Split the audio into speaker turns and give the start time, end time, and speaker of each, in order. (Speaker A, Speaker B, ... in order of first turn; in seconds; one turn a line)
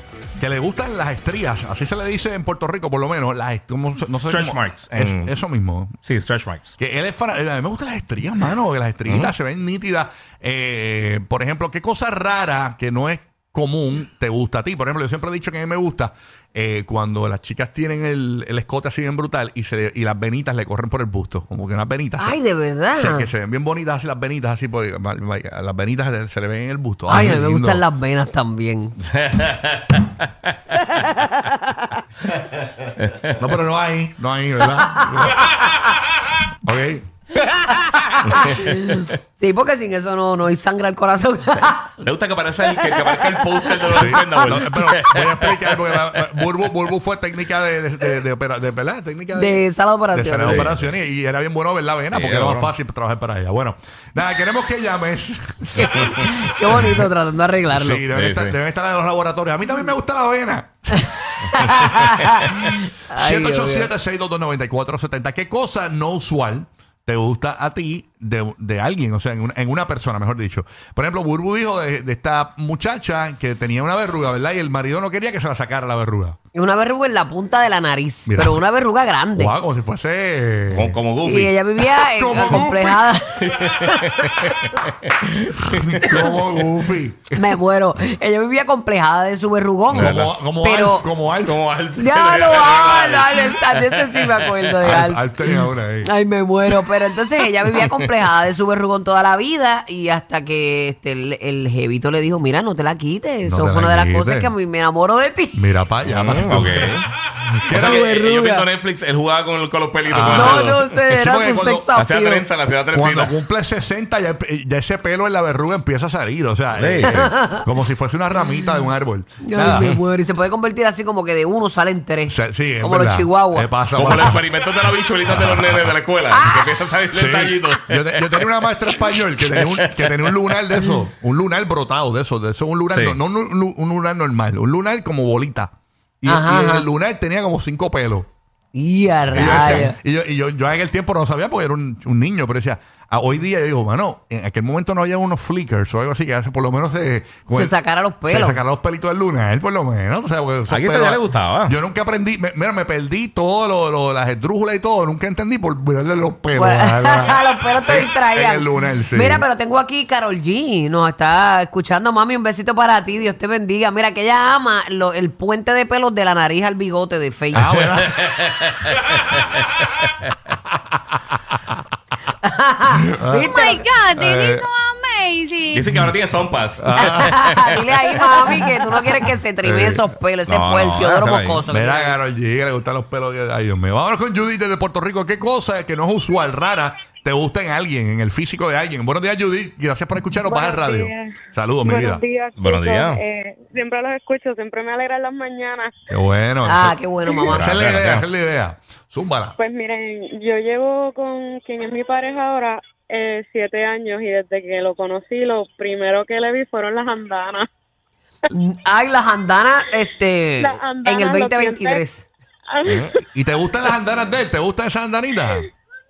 Speaker A: 0.4-6.0
Speaker B: 4.1-5.3
Speaker B: 6.0-6.8
Speaker A: 6.8-22.4
Speaker B: 9.0-9.3
Speaker C: 22.2-23.3
Speaker A: 22.9-27.8
Speaker C: 27.1-29.0
Speaker B: 29.1-30.9
Speaker B: 33.0-33.4
Speaker A: 33.4-35.8
Speaker C: 34.8-35.3
Speaker A: 36.6-37.0
Speaker C: 38.2-41.9
Speaker B: 38.3-39.0
Speaker B: 42.0-46.0
Speaker C: 43.8-44.7
Speaker A: 43.9-56.9
Speaker C: 49.3-50.7
Speaker B: 50.4-50.8
Speaker B: 52.1-52.7
Speaker C: 55.8-58.0
Speaker A: 57.7-61.0
Speaker B: 58.1-58.6
Speaker C: 60.9-63.9
Speaker B: 61.8-62.4
Speaker A: 62.6-76.4
Speaker C: 76.5-79.5
Speaker A: 78.3-78.6
Speaker A: 79.3-81.0
Speaker B: 80.7-81.5
Speaker C: 81.2-84.6
Speaker A: 82.0-83.1
Speaker B: 83.4-85.7
Speaker A: 85.7-87.6
Speaker C: 87.3-91.1
Speaker A: 89.9-91.6
Speaker B: 89.9-90.3
Speaker B: 91.4-94.4
Speaker C: 92.0-105.6
Speaker A: 94.8-96.1
Speaker A: 103.4-104.5
Speaker A: 105.5-107.0
Speaker B: 106.1-107.0
Speaker A: 107.7-108.0
Speaker C: 107.7-108.7
Speaker B: 107.7-111.0
Speaker A: 110.1-111.9
Speaker C: 110.3-112.5
Speaker B: 112.0-113.3
Speaker A: 112.9-119.9
Speaker B: 116.7-117.3
Speaker C: 117.0-117.6
Speaker C: 119.4-123.7
Speaker A: 122.2-124.5
Speaker B: 123.9-130.3
Speaker A: 125.2-126.0
Speaker C: 126.3-126.7
Speaker A: 127.1-135.7
Speaker B: 132.9-133.2
Speaker A: 136.2-138.3
Speaker C: 136.2-136.9
Speaker C: 138.7-139.9
Speaker A: 139.3-159.4
Speaker C: 147.5-148.6
Speaker B: 150.7-151.7
Speaker C: 156.5-167.7
Speaker A: 167.5-168.5
Speaker B: 167.7-169.7
Speaker A: 171.3-171.8
Speaker C: 172.4-173.8
Speaker A: 173.0-173.6
Speaker D: 173.4-175.8
Speaker A: 174.1-174.7
Speaker B: 175.7-177.7
Speaker A: 176.8-177.5
Speaker C: 177.0-182.2
Speaker A: 179.6-180.1
Speaker B: 180.5-181.6
Speaker A: 181.7-192.2
Speaker E: 190.4-195.9
Speaker B: 192.6-193.2
Speaker A: 196.1-197.0
Speaker C: 196.6-197.7
Speaker A: 197.5-199.6
Speaker B: 197.5-198.2
Speaker E: 199.6-207.7
Speaker C: 208.5-212.2
Speaker E: 210.6-212.0
Speaker E: 212.7-213.2
Speaker A: 213.3-215.7